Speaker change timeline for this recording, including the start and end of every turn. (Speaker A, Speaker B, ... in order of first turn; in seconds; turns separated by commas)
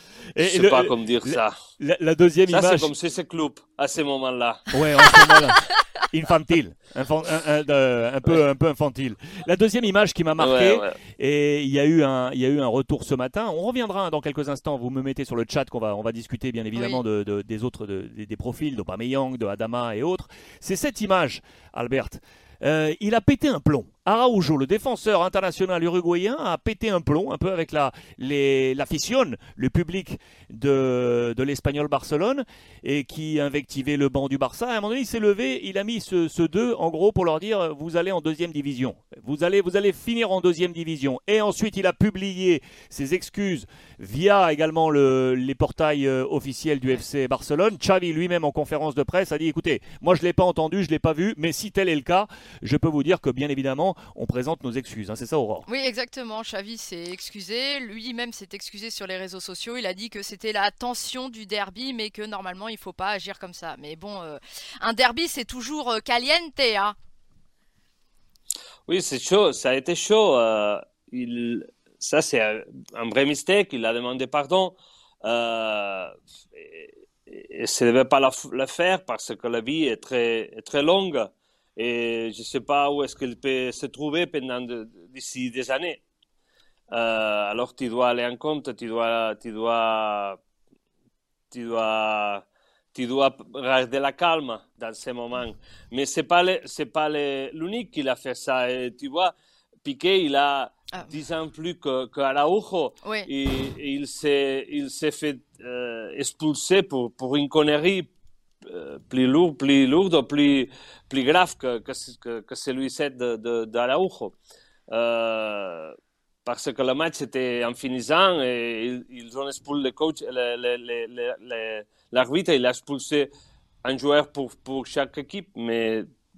Speaker A: 0.3-2.9, Speaker B: 0.4-1.5, Speaker B: 2.5-5.3, Speaker A: 4.7-55.6, Speaker B: 10.4-11.0, Speaker C: 16.7-17.0, Speaker C: 55.6-66.9, Speaker B: 68.9-86.0, Speaker B: 86.9-90.4, Speaker B: 91.5-99.3, Speaker B: 99.8-108.1, Speaker C: 103.0-103.3, Speaker B: 108.6-114.3, Speaker B: 114.9-123.3, Speaker B: 123.8-126.1